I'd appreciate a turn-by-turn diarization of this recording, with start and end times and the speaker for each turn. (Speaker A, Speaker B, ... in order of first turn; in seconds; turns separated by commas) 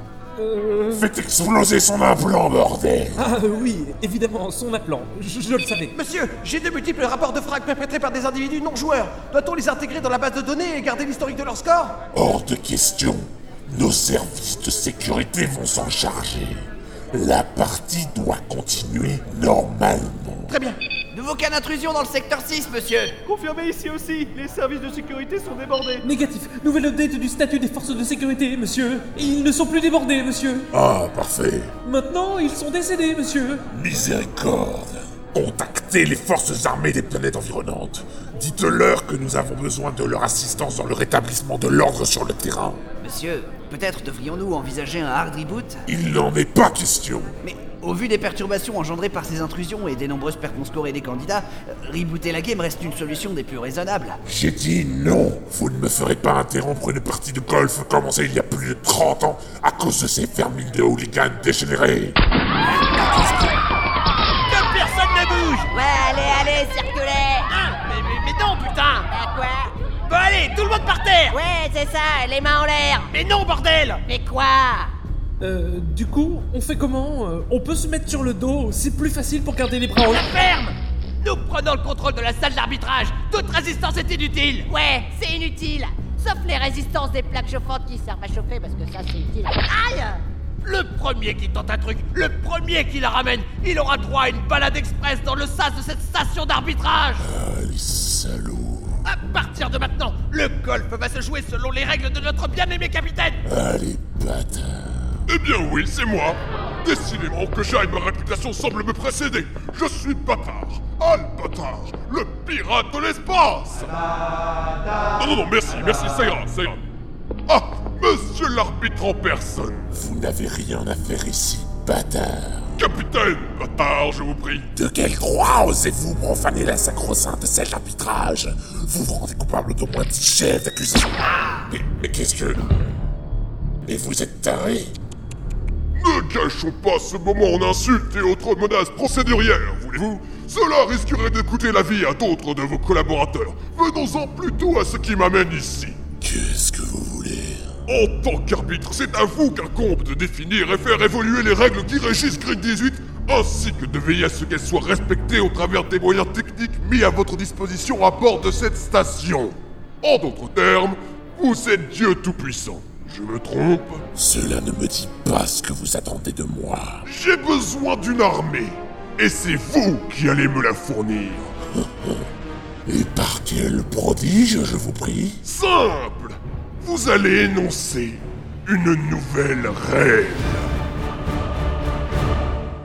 Speaker A: 0.4-1.0, Speaker B: 0.9-3.3, Speaker A: 3.2-5.9, Speaker C: 5.9-11.9, Speaker B: 12.1-20.6, Speaker D: 21.1-23.2, Speaker A: 26.0-30.7, Speaker B: 30.7-31.7, Speaker A: 31.8-33.6, Speaker B: 33.7-42.8, Speaker D: 43.0-45.8, Speaker B: 45.9-47.3, Speaker D: 47.4-54.2, Speaker B: 54.2-62.2, Speaker E: 64.5-65.7, Speaker F: 65.7-67.5, Speaker E: 67.6-69.0, Speaker F: 69.0-69.7, Speaker E: 70.1-71.4, Speaker F: 71.3-73.1, Speaker E: 73.1-74.0, Speaker F: 74.0-74.9, Speaker A: 75.4-80.2, Speaker E: 80.1-84.7, Speaker F: 84.7-90.2, Speaker E: 90.6-97.2, Speaker B: 97.2-99.0, Speaker E: 99.0-103.4, Speaker B: 103.4-105.2, Speaker G: 105.3-114.0, Speaker G: 115.2-116.8, Speaker G: 117.5-119.9, Speaker B: 119.9-122.7, Speaker G: 122.8-124.7, Speaker B: 124.8-132.9, Speaker B: 133.8-134.9, Speaker G: 135.9-146.0, Speaker B: 146.2-147.7, Speaker G: 147.9-164.0, Speaker B: 164.1-167.0, Speaker G: 167.0-171.5, Speaker B: 171.8-172.2, Speaker B: 172.9-175.4, Speaker G: 175.4-180.5